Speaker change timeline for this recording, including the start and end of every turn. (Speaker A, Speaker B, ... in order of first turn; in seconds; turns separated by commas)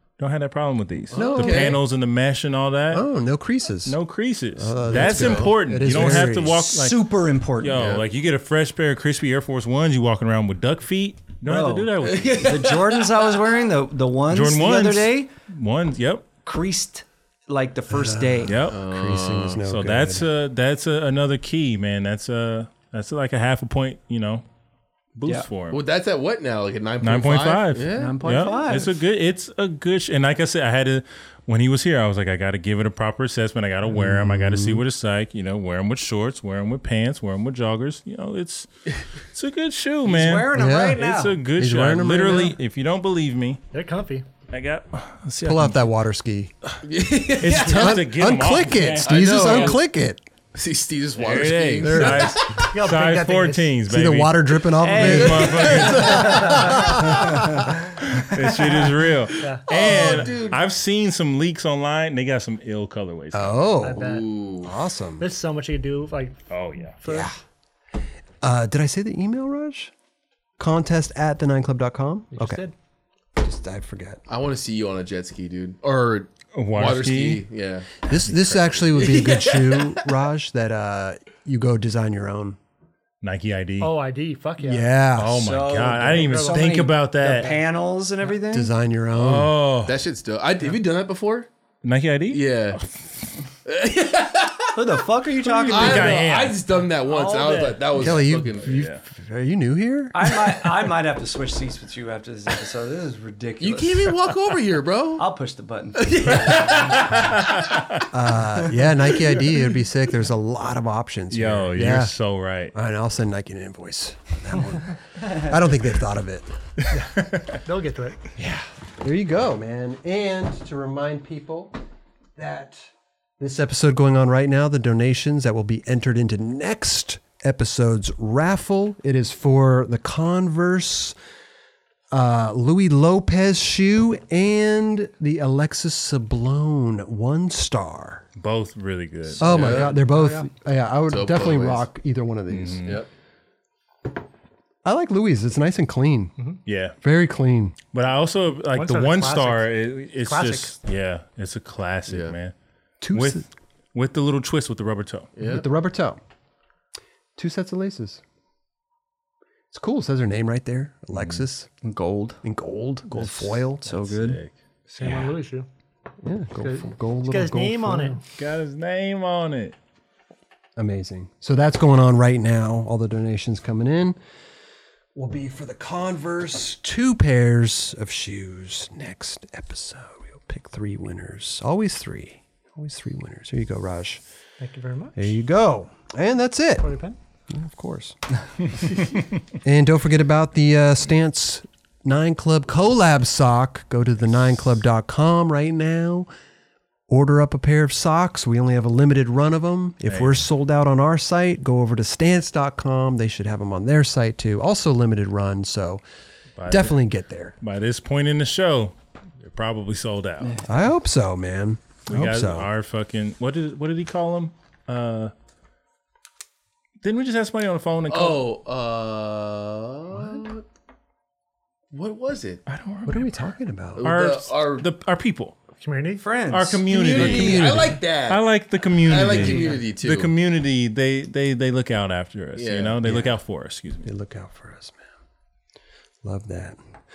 Speaker A: 0.2-3.0, Speaker B: 1.1-1.8, Speaker C: 1.1-1.8, Speaker C: 2.9-4.0, Speaker A: 3.8-7.0, Speaker C: 4.5-6.6, Speaker B: 4.9-5.5, Speaker D: 5.9-7.8, Speaker A: 7.6-12.6, Speaker B: 7.7-8.0, Speaker D: 11.4-15.3, Speaker B: 12.0-13.4, Speaker A: 14.3-16.2, Speaker D: 16.4-18.6, Speaker C: 17.9-20.2, Speaker A: 18.5-18.8, Speaker B: 18.7-19.6, Speaker A: 19.6-24.4, Speaker A: 25.1-25.8, Speaker B: 25.7-28.6, Speaker A: 27.0-38.7, Speaker D: 27.9-28.9, Speaker C: 33.9-34.8, Speaker A: 39.3-43.6, Speaker D: 40.0-41.4, Speaker C: 40.5-41.0, Speaker C: 41.5-42.5, Speaker E: 43.7-44.2, Speaker A: 44.5-45.9, Speaker C: 45.4-46.5, Speaker B: 46.8-48.0, Speaker A: 47.4-49.8, Speaker C: 47.6-50.2, Speaker B: 49.0-49.8, Speaker B: 50.5-52.6, Speaker A: 51.2-56.8, Speaker C: 51.8-52.4, Speaker E: 52.6-53.8, Speaker C: 53.9-57.7, Speaker D: 54.8-56.2, Speaker E: 56.2-56.7, Speaker A: 58.0-63.7, Speaker E: 59.4-59.7, Speaker B: 59.7-60.6, Speaker C: 63.3-65.2, Speaker E: 63.8-64.2, Speaker B: 63.9-64.7, Speaker E: 65.2-66.4, Speaker A: 66.5-67.0, Speaker E: 67.0-67.3, Speaker C: 67.0-67.3, Speaker C: 68.4-69.9, Speaker C: 70.6-72.6, Speaker E: 72.3-72.7, Speaker C: 73.4-74.2, Speaker B: 74.3-77.9, Speaker A: 76.5-77.4, Speaker C: 78.0-82.6, Speaker A: 78.2-78.8, Speaker B: 79.0-80.0, Speaker A: 83.2-83.9, Speaker E: 83.8-84.9, Speaker C: 84.6-85.5, Speaker A: 85.2-87.5, Speaker D: 85.4-88.7, Speaker E: 86.2-86.7, Speaker C: 88.5-89.5, Speaker A: 89.1-90.0, Speaker B: 89.8-91.5, Speaker A: 91.8-93.1, Speaker B: 92.3-92.8, Speaker B: 93.6-94.7, Speaker D: 94.7-96.2, Speaker A: 95.5-96.6, Speaker B: 95.7-98.8, Speaker E: 97.1-97.8, Speaker C: 98.0-100.7, Speaker A: 98.6-99.0, Speaker D: 100.1-104.2, Speaker B: 103.6-105.2, Speaker D: 105.2-106.8, Speaker B: 106.0-107.3, Speaker A: 107.1-108.0, Speaker C: 108.1-112.1, Speaker A: 111.3-112.7, Speaker C: 112.7-116.5, Speaker A: 117.1-117.5, Speaker E: 117.6-118.2, Speaker C: 118.4-121.8, Speaker C: 122.3-131.2, Speaker C: 132.1-138.2, Speaker A: 138.3-139.9, Speaker C: 139.4-143.0, Speaker B: 139.4-139.9, Speaker B: 141.1-141.8, Speaker A: 142.5-143.0, Speaker C: 144.8-146.3, Speaker A: 146.7-146.9, Speaker C: 147.0-147.7, Speaker A: 147.9-152.5, Speaker E: 148.7-150.7, Speaker B: 152.1-152.3, Speaker C: 153.0-153.4, Speaker A: 153.1-155.3, Speaker B: 155.4-155.7, Speaker C: 155.4-156.2, Speaker C: 157.4-158.2, Speaker C: 159.7-161.7, Speaker A: 161.1-161.4, Speaker D: 161.8-162.4, Speaker C: 162.4-164.1, Speaker D: 163.1-164.4, Speaker A: 164.1-164.5, Speaker E: 164.9-165.7, Speaker C: 166.2-168.2, Speaker E: 166.6-168.2, Speaker A: 168.3-169.7, Speaker C: 170.8-174.2, Speaker C: 175.1-184.2, Speaker E: 184.6-185.3, Speaker C: 185.2-186.9, Speaker E: 186.8-187.1, Speaker C: 187.5-188.2, Speaker C: 189.6-196.3, Speaker C: 197.1-206.0, Speaker A: 200.1-200.4, Speaker A: 206.6-207.0, Speaker C: 206.7-207.5, Speaker A: 207.6-210.5, Speaker D: 210.4-210.7, Speaker C: 210.7-212.7, Speaker A: 212.1-215.3, Speaker A: 217.0-218.4, Speaker B: 218.1-220.6, Speaker B: 221.9-222.6, Speaker A: 222.7-223.3, Speaker C: 223.1-224.1, Speaker B: 224.0-224.8, Speaker A: 224.0-225.5, Speaker E: 225.8-226.2, Speaker D: 226.2-226.8, Speaker A: 226.5-234.1, Speaker B: 226.9-228.4, Speaker C: 226.9-228.0, Speaker B: 229.0-230.3, Speaker B: 232.6-232.9, Speaker C: 233.0-233.4, Speaker C: 234.0-235.0, Speaker C: 236.2-236.8